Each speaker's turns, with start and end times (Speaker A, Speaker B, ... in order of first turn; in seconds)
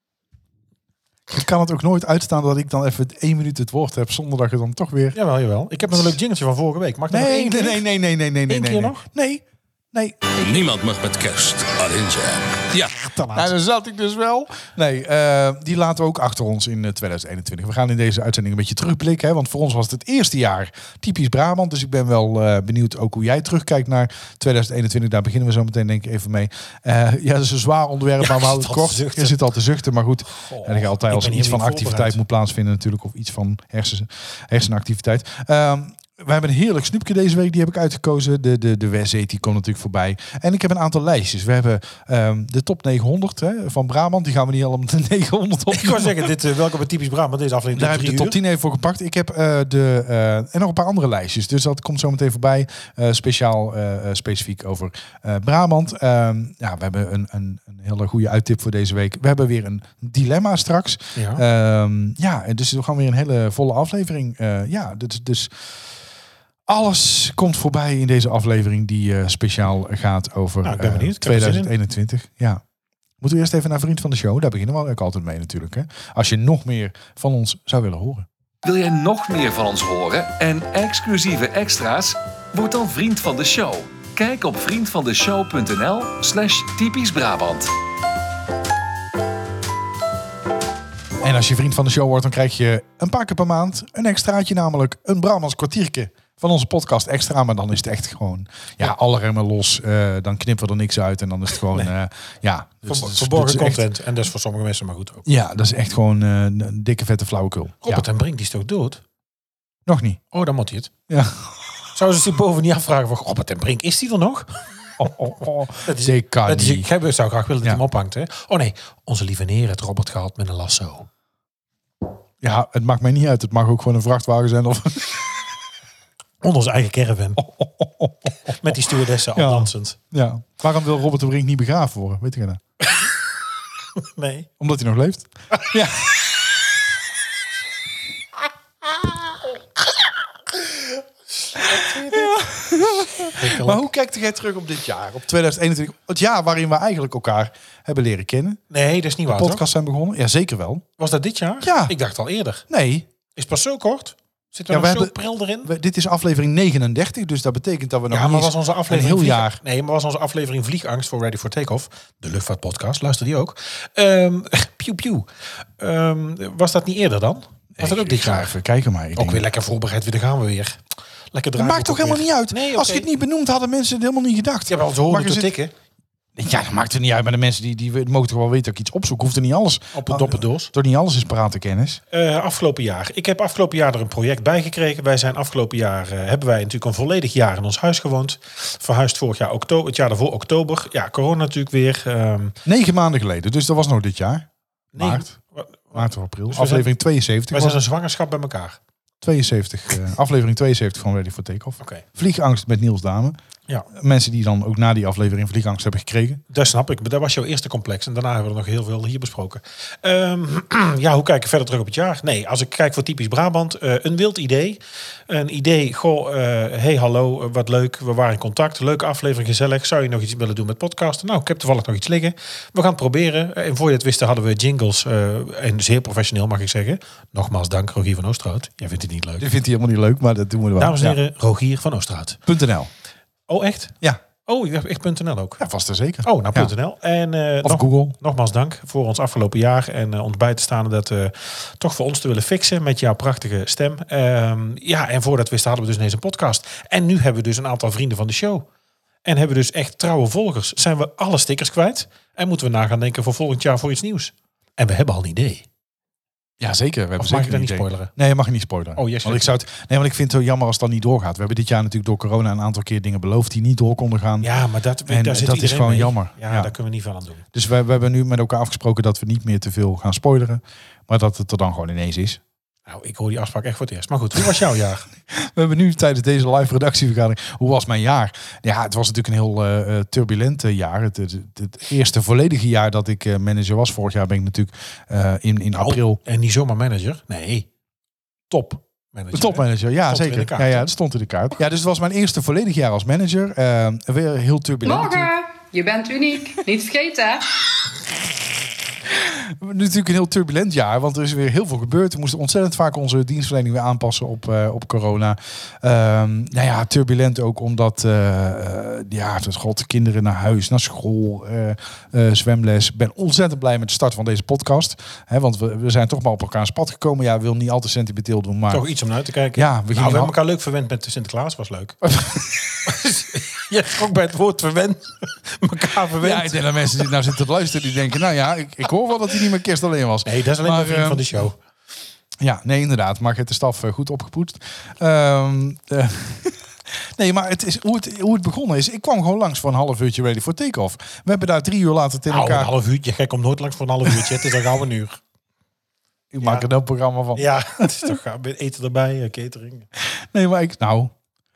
Speaker A: 1.3-5.2, 7.1-10.4, 13.3-46.3, 47.7-65.5, 66.7-72.6, 73.2-78.2, 91.2-103.8, 105.2-108.0, 109.8-110.2, 111.1-111.7, 115.0-116.9, 122.4-125.3, 127.4-132.6, 134.6-136.2, 141.6-148.6, 149.3-150.8, 151.6-151.9, 152.7-153.1, 154.7-159.6, 167.8-169.4, 171.6-175.5, 176.3-182.0, 192.6-195.3, 195.9-197.8, 199.2-203.4, 203.9-206.4, 229.4-231.2, 232.5-232.9, 235.6-236.7, 237.6-238.2, 256.6-264.5, 265.1-266.7, 267.5-272.4, 275.3-286.2, 289.3-295.3, 299.1-318.8, 319.5-320.3, 322.1-322.8, 326.2-331.5, 332.4-342.7, 344.1-344.3, 346.3-348.1, 350.1-351.1
Speaker B: 5.1-7.8, 8.5-9.0, 12.9-13.5, 28.2-29.4, 30.3-32.2, 45.7-48.4, 61.1-61.4, 70.6-71.7, 102.8-105.2, 107.8-109.0, 110.3-110.9, 111.9-114.6, 115.8-121.1, 126.4-127.4, 128.5-130.0, 134.0-134.5, 141.4-142.4, 143.2-143.8, 148.7-149.6, 151.0-152.6, 153.3-155.7, 158.1-165.2, 165.8-168.6, 169.2-170.8, 171.3-173.1, 174.7-175.7, 179.9-180.7, 182.1-192.6, 194.9-196.9, 197.5-198.8, 206.5-229.5, 230.8-232.4, 233.5-235.6, 236.2-248.7, 249.2-255.7, 257.2-258.1, 258.9-259.4, 264.4-267.4, 272.9-275.1, 285.8-287.7, 288.5-290.9, 318.7-322.0, 322.8-327.1, 330.2-331.6, 342.3-345.2, 346.4-346.7, 347.4-349.9
Speaker C: 10.4-12.9
Speaker D: 78.6-87.7
Speaker E: 294.8-297.4